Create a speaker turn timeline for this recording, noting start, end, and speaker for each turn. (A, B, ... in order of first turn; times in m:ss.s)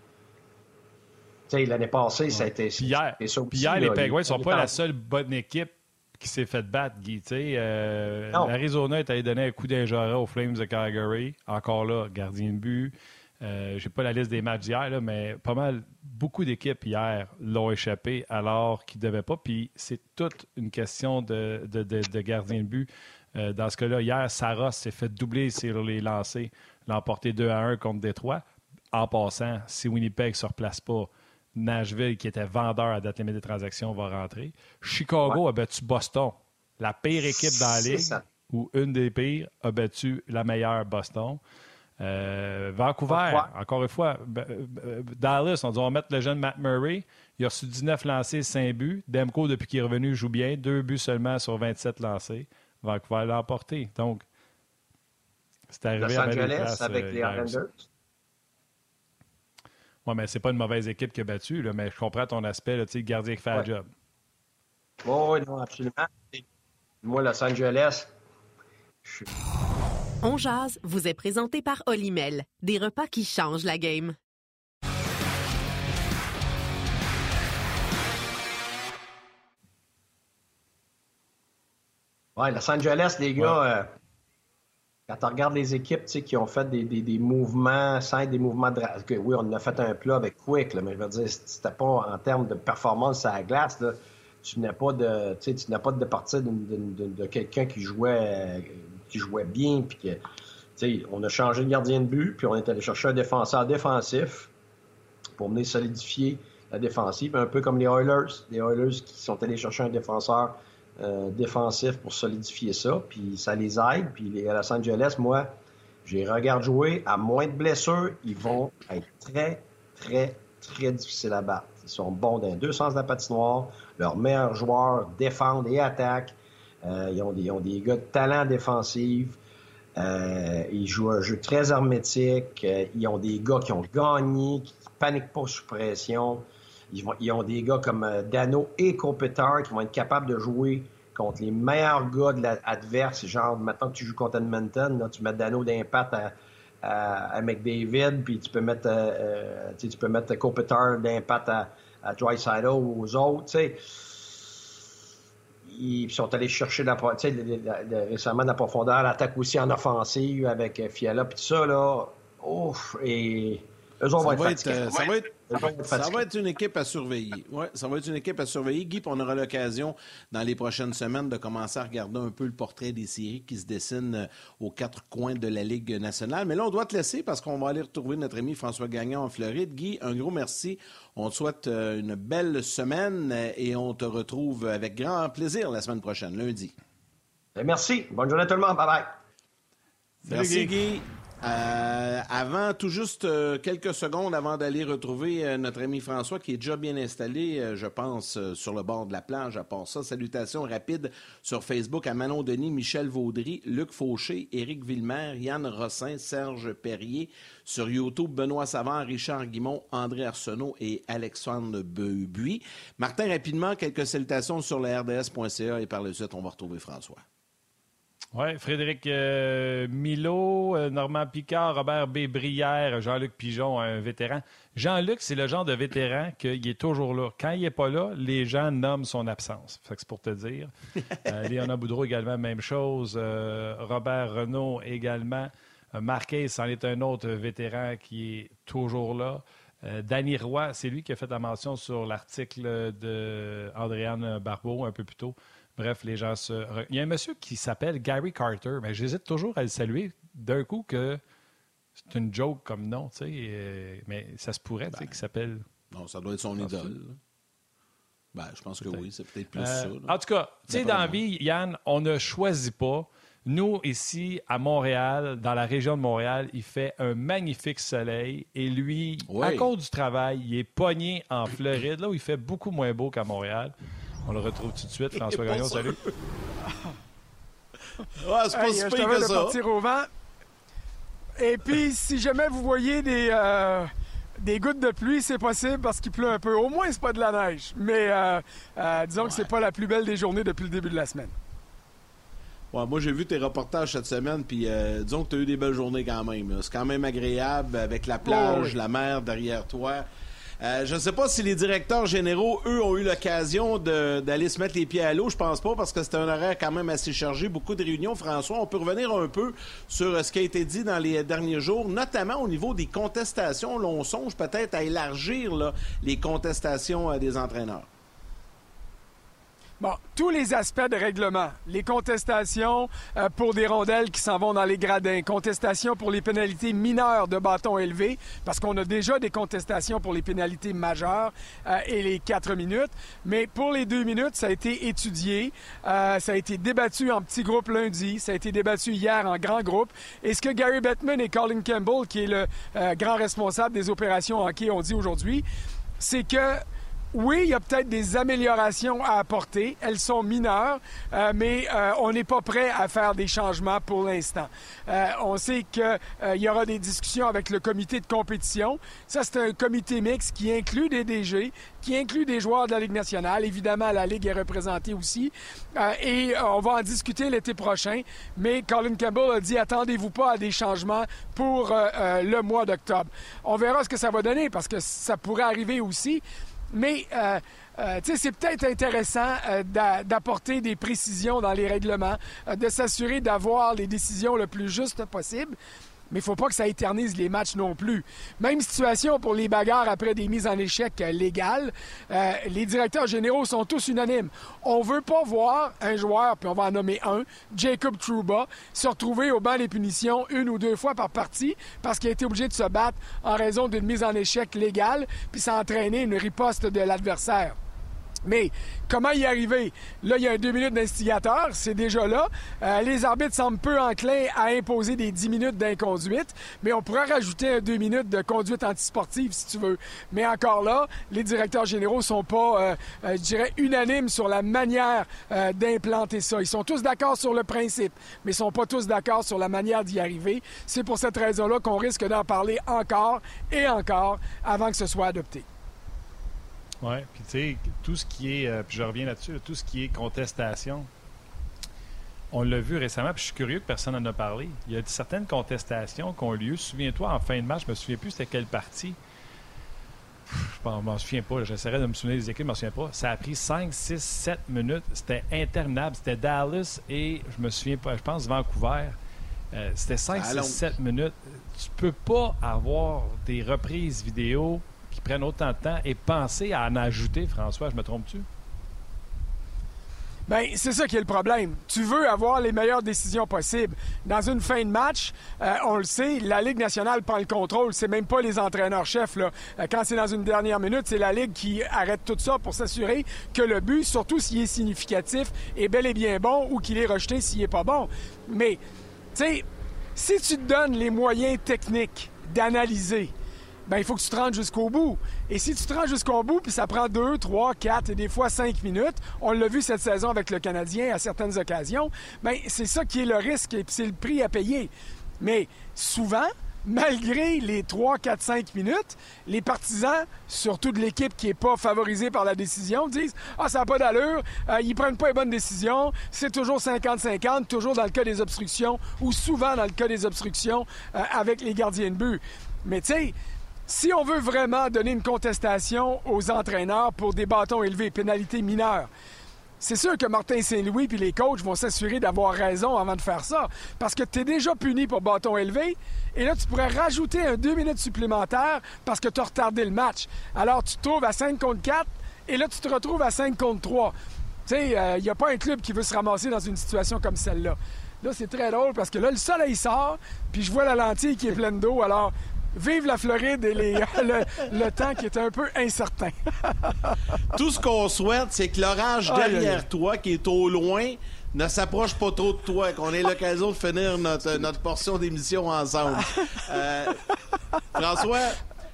0:01.5-0:04.8 A
0:02.3-0:41.4 B
0:37.2-0:38.2 A
0:42.0-0:54.2 B
0:43.1-0:43.5 A
0:55.7-0:57.6 B
0:56.0-0:57.8 A
1:00.0-1:03.9 B
1:05.0-1:06.4 A
1:07.0-1:08.1 A
1:10.2-1:14.1 C
1:22.4-1:23.9 A
1:25.1-1:40.2 A
1:40.8-1:44.5 A
1:45.4-1:55.5 A
1:56.0-2:09.4 A
2:10.0-2:34.2 A
2:35.6-2:46.2 A
2:44.2-3:06.7 D
3:07.6-3:09.2 A
3:10.2-3:10.7 B
3:10.3-3:37.2 D
3:38.3-3:50.7 B
3:51.2-4:11.2 B
4:12.1-4:15.6 B
4:15.9-4:17.2 D
4:16.6-4:17.0 B
4:18.3-4:20.1 D
4:19.6-4:33.7 B
4:20.7-4:21.2 D
4:29.3-4:29.7 D
4:34.2-4:36.0 B
4:35.2-4:36.1 D
4:38.2-4:39.6 D
4:38.5-4:40.1 E
4:41.4-4:51.3 E
4:49.2-4:49.5 D
4:52.7-5:00.0 D
4:58.2-4:58.8 E
5:00.6-5:17.9 D
5:19.8-5:45.4 E
5:46.0-6:25.6 E
6:26.1-6:47.6 E
6:48.2-7:15.4 E
7:16.8-7:20.9 B
7:22.3-7:29.0 B
7:30.3-7:39.0 B
7:39.5-7:48.2 B
7:40.1-7:40.7 D
7:50.3-8:08.6 E
8:09.1-8:09.4 E
8:10.0-8:13.1 E
8:13.7-8:43.1 E
8:43.7-8:48.9 E
8:49.6-9:03.9 E
9:04.5-9:16.9 E
9:17.3-9:27.0 D
9:19.1-9:19.6 E
9:27.7-9:28.4 D